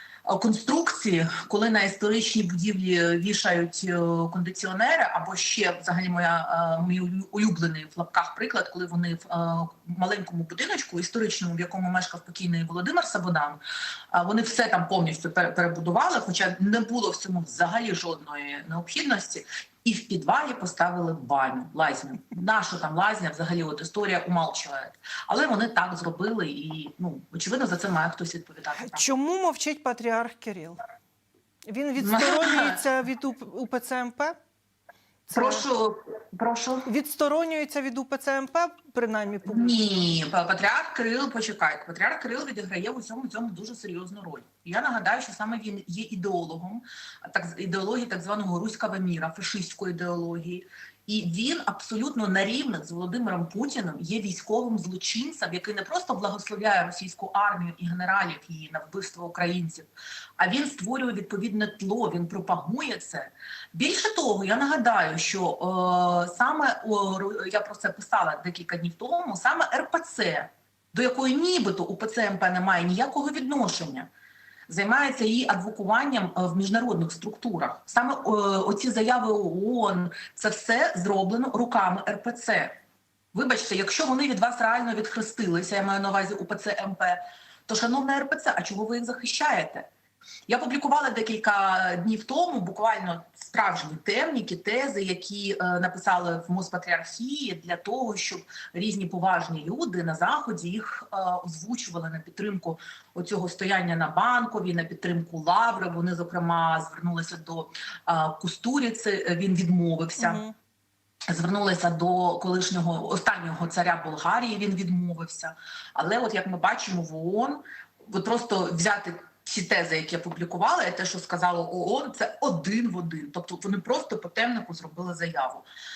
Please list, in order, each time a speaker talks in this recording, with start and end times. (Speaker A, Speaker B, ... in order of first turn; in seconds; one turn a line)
Speaker A: 0.2-13.6
Speaker A: 14.1-29.1
Speaker B: 28.8-30.8
Speaker B: 31.7-34.4
Speaker A: 32.0-32.8
Speaker B: 35.3-35.6
Speaker A: 35.3-36.9
Speaker B: 36.9-39.8
Speaker A: 39.5-74.1
Speaker A: 74.7-82.8
Speaker A: 83.3-89.9
Speaker A: 90.5-110.4
Speaker B: 110.2-110.5
Speaker A: 111.3-125.6